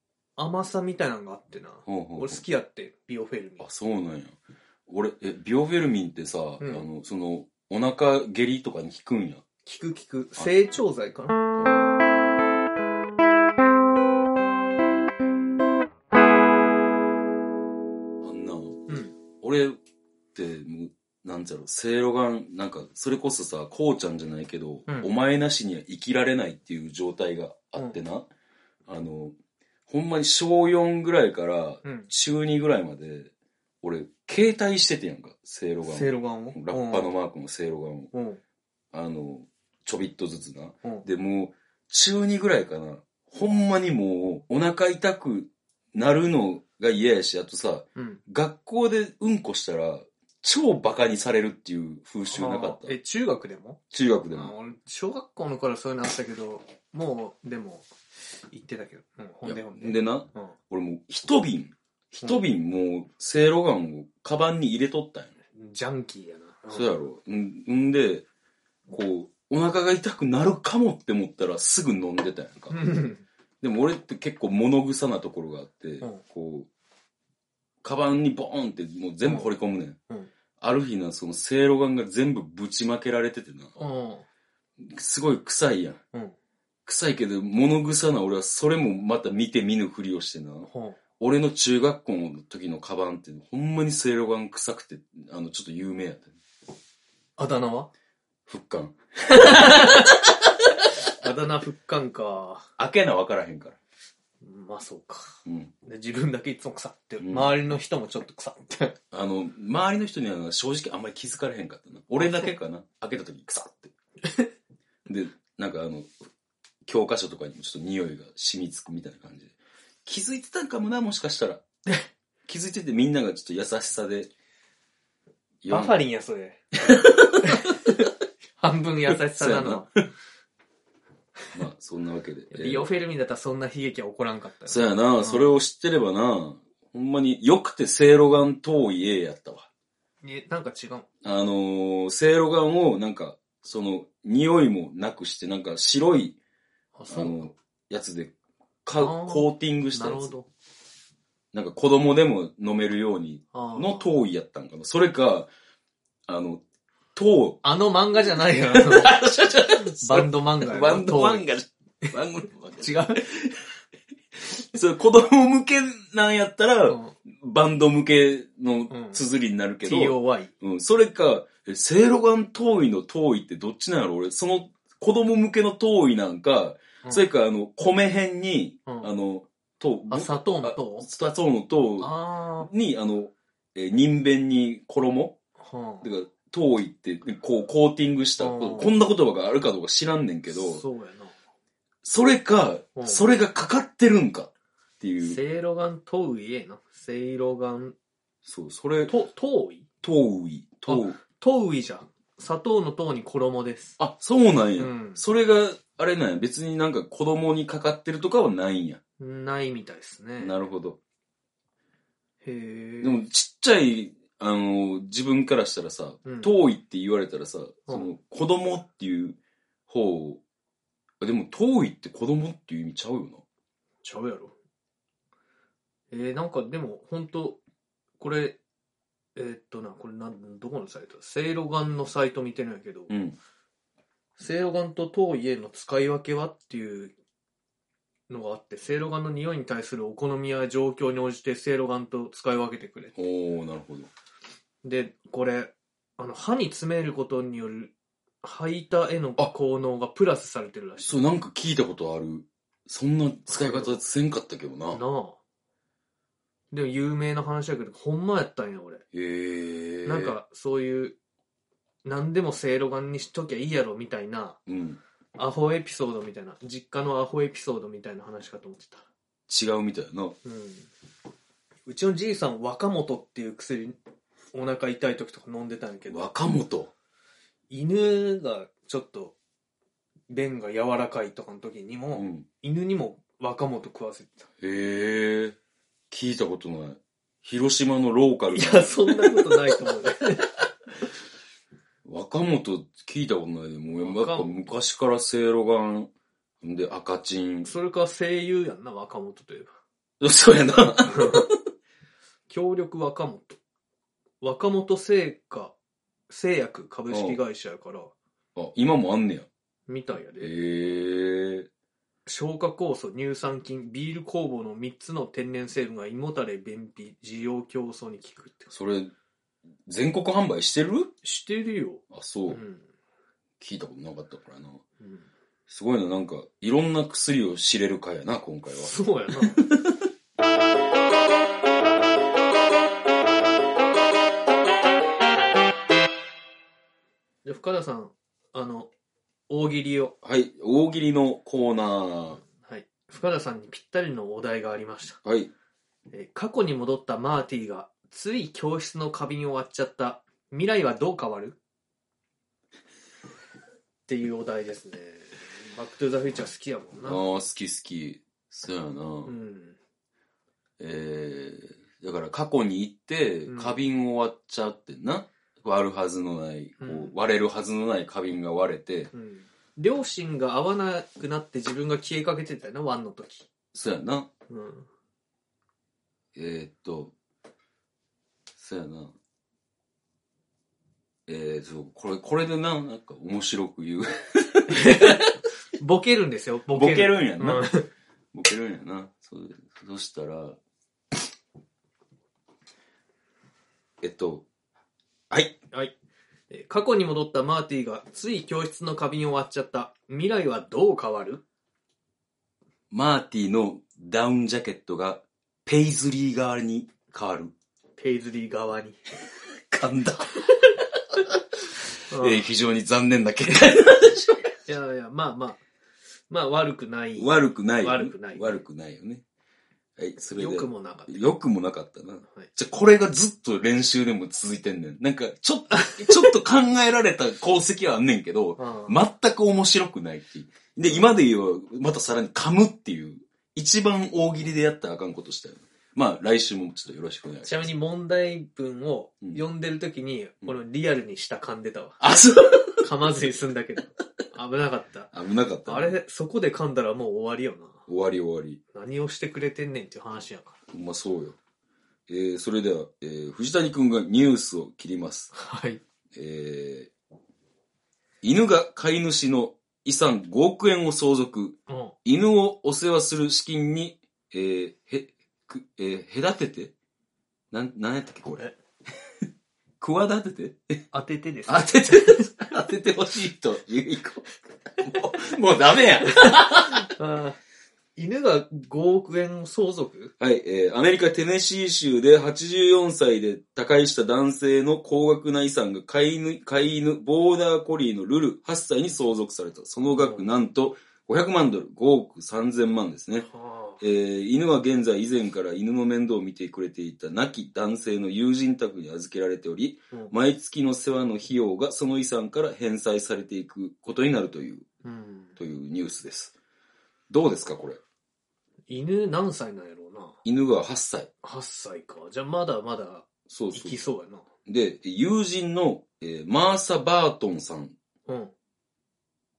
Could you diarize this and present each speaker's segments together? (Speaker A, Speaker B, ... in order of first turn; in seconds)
Speaker A: 0.4-3.6, 6.6-6.8, 9.7-11.4, 18.9-19.1, 31.8-32.1, 35.9-37.1, 38.1-38.4, 48.0-48.2, 52.3-53.8, 54.3-60.5, 65.5-66.9, 72.7-73.2, 79.2-79.5, 83.8-84.2, 90.7-91.0, 97.4-97.9, 99.3-100.2, 101.2-102.7, 104.4-109.0, 112.2-112.5, 125.7-126.6, 127.4-129.9, 132.5-135.6, 140.2-141.1, 147.0-147.5, 149.0-150.5, 153.5-154.1, 157.6-159.2, 159.8-161.5, 162.8-163.2, 166.9-167.2, 168.9-169.2, 169.8-170.5, 180.1-181.1, 182.0-182.7, 185.6-186.1, 188.4-188.9, 190.5-191.3, 193.0-193.2, 195.2-197.9, 199.1-199.9, 200.9-204.0, 204.8-205.2, 209.2-210.6, 212.4-213.2, 216.2-216.5, 217.9-218.1, 224.0-224.5, 226.1-227.6, 228.2-228.6, 229.4-233.1, 234.4-237.1, 238.3-243.1, 244.8-251.1, 253.5-254.0, 254.9-255.4, 256.7-259.0, 260.1-261.2, 262.1-264.6, 265.4-269.1, 270.4-270.9, 271.9-274.0, 274.5-276.3, 277.7-279.4, 280.3-284.5, 288.5-290.5, 294.0-294.6, 297.6-299.7, 301.1-301.5, 302.5-303.6, 304.4-305.8, 306.3-308.1, 309.9-310.5, 312.2-318.7, 321.2-322.9, 325.0-325.3, 328.8-329.6, 337.4-338.9, 339.5-340.1, 342.6-345.2, 346.1-351.6, 354.1-357.2, 359.2-359.8, 363.5-363.8, 366.8-367.1, 369.1-373.5, 374.5-374.9, 384.7-387.9, 396.5-401.4, 408.0-409.0, 412.1-412.5, 414.7-415.6, 416.3-418.6, 420.4-421.2, 425.8-426.1, 428.6-429.0, 437.4-442.0, 442.8-445.1, 445.7-447.8, 448.7-450.6, 455.3-455.8, 461.7-461.9, 470.9-472.5, 476.1-477.4, 478.0-480.1, 489.9-490.2, 493.2-493.8, 504.8-505.4, 508.7-510.2, 511.2-514.2, 518.1-518.3
Speaker B: 1.9-2.4, 3.6-9.4, 11.6-11.9, 18.2-18.9, 19.4-19.8, 20.4-28.3, 28.9-29.4, 29.9-33.3, 33.8-38.1, 38.9-53.0, 53.9-54.5, 59.5-65.3, 66.7-68.2, 68.9-72.8, 73.6-76.7, 77.8-80.0, 80.6-83.7, 84.8-86.0, 86.9-96.4, 98.5-100.1, 102.8-103.8, 105.5-105.7, 107.2-107.5, 109.1-113.9, 115.1-116.2, 116.9-121.7, 122.5-124.3, 125.6-125.9, 126.9-127.7, 129.1-129.9, 131.5-132.9, 134.7-139.7, 141.2-146.4, 147.1-148.3, 148.8-150.3, 151.5-155.5, 156.3-156.6, 157.2-157.6, 158.3-163.6, 164.4-185.4, 186.0-190.8, 192.0-194.5, 195.0-195.4, 198.4-199.1, 200.0-201.2, 204.0-209.0, 210.4-211.0, 213.0-219.4, 219.9-220.4, 221.2-223.4, 233.1-233.4, 243.2-244.1, 251.0-255.0, 259.1-260.4, 264.7-265.0, 269.5-270.4, 276.1-276.9, 282.2-282.5, 284.6-285.6, 286.1-289.6, 292.1-296.1, 296.6-297.7, 300.2-301.5, 307.1-307.4, 308.6-309.5, 310.4-311.7, 318.7-319.1, 319.9-321.1, 322.1-322.6, 323.6-324.8, 325.7-330.0, 340.2-342.4, 345.2-345.5, 357.0-359.3, 360.8-369.1, 373.7-374.3, 376.4-377.1, 378.6-379.1, 381.3-385.3, 386.7-387.7, 388.3-390.6, 394.0-394.5, 395.3-395.6, 402.9-407.5, 409.7-410.4, 412.1-414.5, 417.2-419.2, 420.0-437.7, 442.0-442.9, 445.1-446.0, 447.9-448.6, 450.7-451.4, 452.1-455.3, 456.1-456.9, 458.2-466.7, 467.5-468.5, 469.8-470.8, 471.5-476.9, 480.2-493.3, 493.8-504.7, 505.4-506.3, 507.1-507.8, 510.2-511.1, 513.3-513.8, 514.5-517.8